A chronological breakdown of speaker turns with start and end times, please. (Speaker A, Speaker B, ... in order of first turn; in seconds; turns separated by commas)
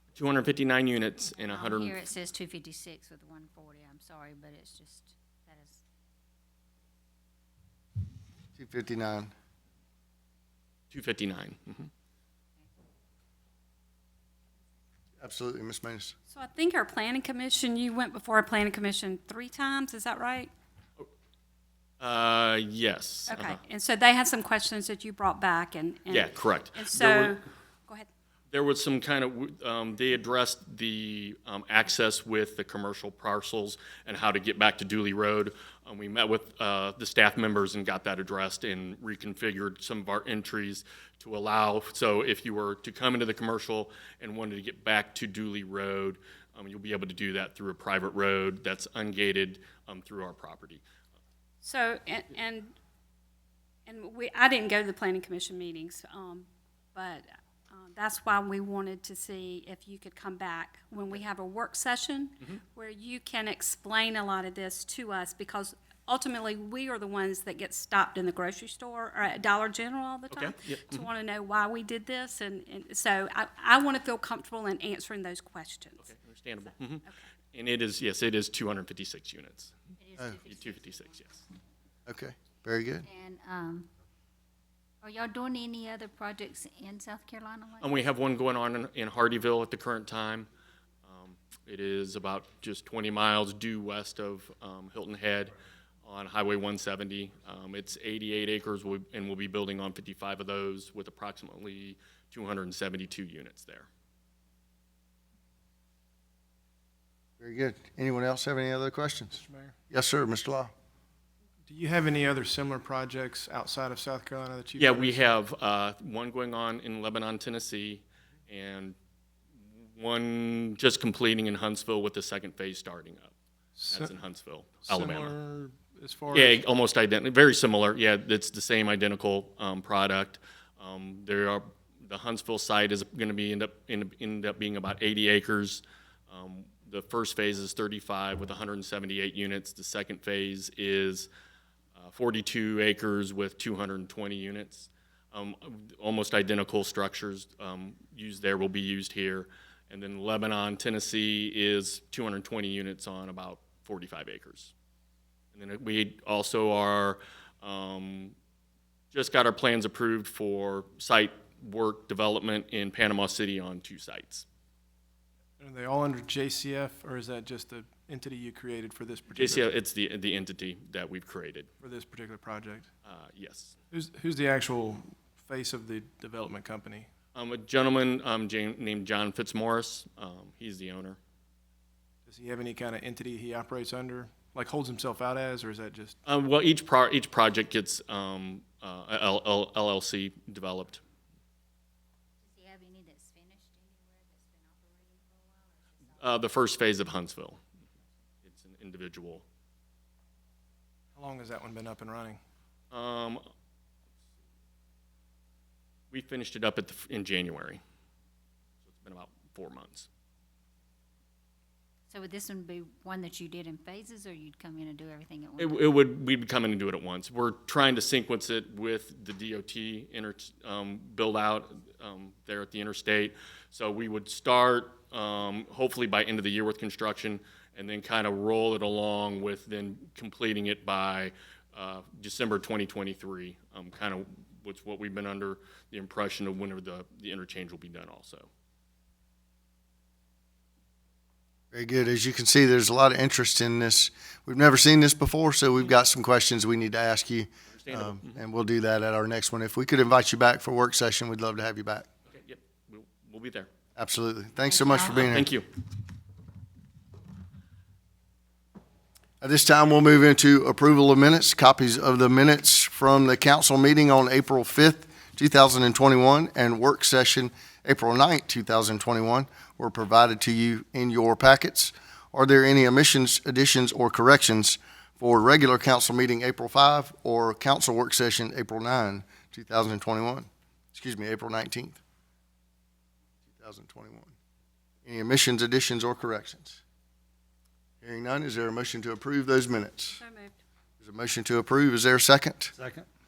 Speaker A: 0.1-2.0, Speaker B: 1.4-5.8, Speaker C: 8.6-9.3, Speaker A: 10.9-11.9, Speaker C: 15.2-16.1, Speaker D: 16.3-20.5, Speaker A: 22.0-23.6, Speaker D: 23.3-28.1, Speaker A: 26.1-27.4, Speaker A: 28.5-50.8, Speaker D: 51.6-52.7, Speaker D: 53.9-76.0, Speaker A: 70.3-71.0, Speaker A: 76.0-79.7, Speaker B: 80.0-81.5, Speaker A: 80.5-81.3, Speaker C: 82.1-83.1, Speaker B: 83.0-83.9, Speaker B: 85.0-87.9, Speaker A: 87.8-90.5, Speaker A: 91.1-95.5, Speaker A: 96.0-103.9, Speaker C: 107.4-110.7, Speaker E: 109.3-109.8, Speaker E: 111.7-115.2, Speaker A: 114.8-119.0, Speaker A: 119.7-123.3, Speaker E: 123.8-124.1, Speaker A: 123.9-125.4, Speaker E: 124.9-126.6, Speaker A: 126.3-141.3, Speaker A: 142.0-154.7, Speaker A: 155.5-158.3, Speaker A: 159.1-164.4, Speaker E: 165.6-169.7, Speaker A: 169.3-171.7, Speaker E: 171.8-172.9, Speaker A: 173.1-173.8, Speaker E: 173.9-177.1, Speaker A: 177.3-181.2, Speaker E: 182.3-186.2, Speaker A: 186.3-191.0, Speaker B: 192.4-196.4, Speaker A: 196.2-197.6, Speaker A: 198.4-199.4, Speaker E: 201.2-202.4, Speaker A: 202.9-203.4, Speaker A: 206.1-207.8, Speaker A: 208.8-210.1, Speaker B: 212.1-215.9, Speaker A: 215.6-238.5, Speaker C: 241.7-252.1, Speaker A: 247.7-248.4, Speaker A: 252.3-253.7, Speaker C: 254.0-255.5, Speaker B: 254.7-255.2, Speaker A: 255.1-255.7, Speaker C: 259.4-282.0, Speaker C: 283.5-284.3, Speaker C: 285.1-286.8, Speaker C: 288.0-290.2, Speaker D: 290.2-290.6, Speaker C: 291.0-292.8